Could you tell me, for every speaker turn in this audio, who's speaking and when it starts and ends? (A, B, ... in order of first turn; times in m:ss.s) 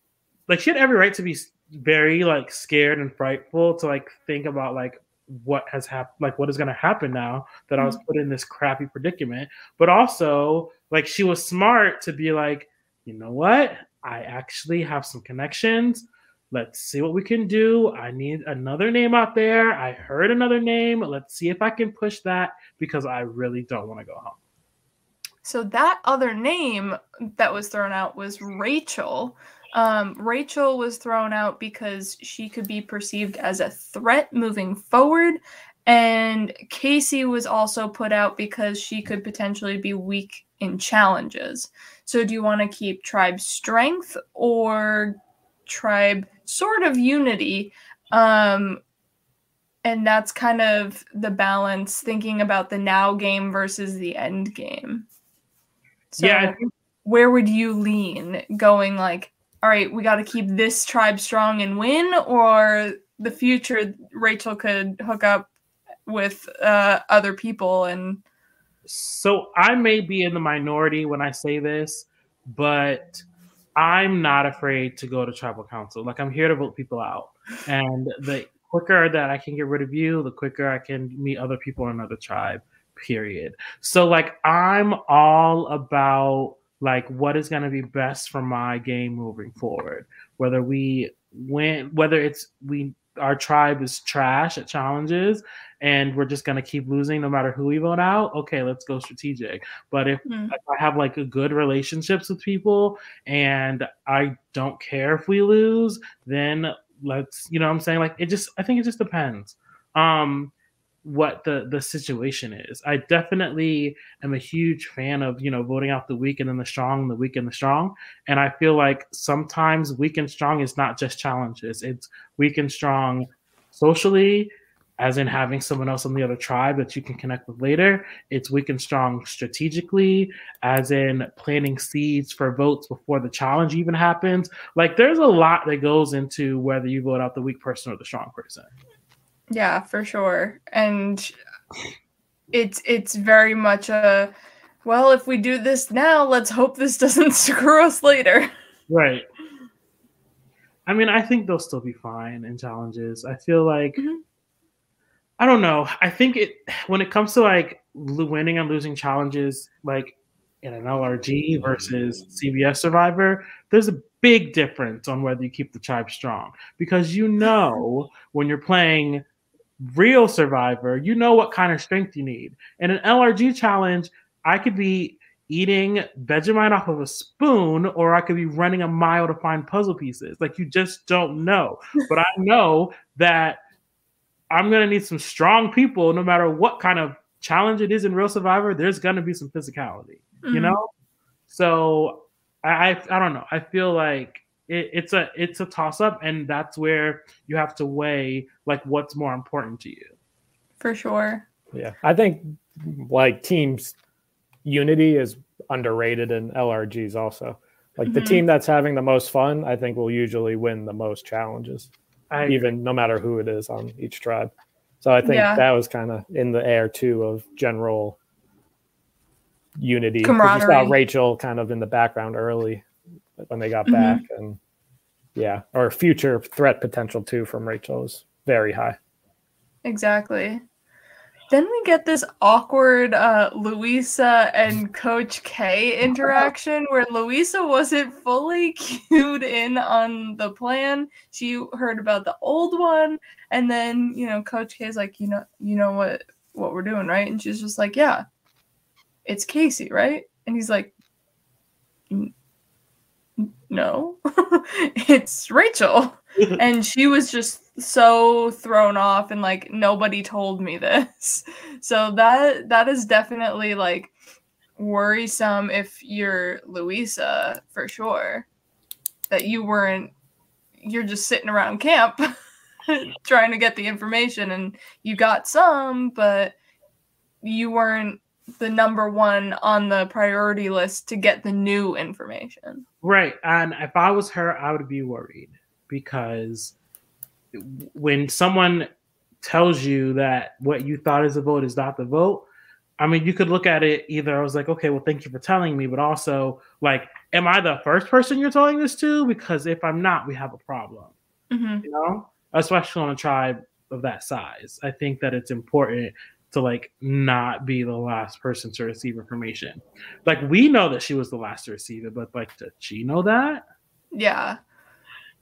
0:00.5-0:24.4 A
0:25.4-0:48.8 B
0:49.8-0:55.1 B
0:56.1-1:05.5 B
0:56.2-0:56.7 A
1:06.1-1:08.2 B
1:08.9-1:13.2 A
1:13.8-1:50.5 A
1:40.3-1:40.5 B
1:51.0-2:18.7 A
2:19.5-2:21.3 B
2:22.5-2:24.3 B
2:24.8-2:28.5 B
2:28.9-2:29.3 A
2:30.9-2:34.0 A
2:34.0-2:34.2 B
2:35.4-2:49.2 A
2:49.8-3:03.6 A
3:04.5-3:10.9 A
3:10.4-3:10.8 B
3:11.5-3:20.2 A
3:20.8-3:21.4 B
3:21.7-3:24.0 C
3:24.6-3:31.9 C
3:28.1-3:28.4 B
3:32.3-3:32.7 A
3:32.4-3:38.2 C
3:35.2-3:35.6 B
3:39.8-3:42.8 C
3:40.2-3:41.0 B
3:43.4-3:44.6 C
3:43.9-3:44.2 B
3:45.4-3:49.0 C
3:49.8-3:50.6 B
3:51.5-4:08.2 B
4:09.2-4:10.9 B
4:13.4-4:24.1 B
4:24.8-4:28.5 B
4:29.3-4:30.1 B
4:30.8-4:32.2 B
4:32.9-4:36.6 B
4:37.4-4:42.8 B
4:43.0-4:46.8 A
4:47.5-4:48.9 A
4:49.4-4:52.5 A
4:53.0-5:01.1 A
5:01.5-5:01.8 B
5:01.8-5:13.6 A
5:14.1-5:14.6 B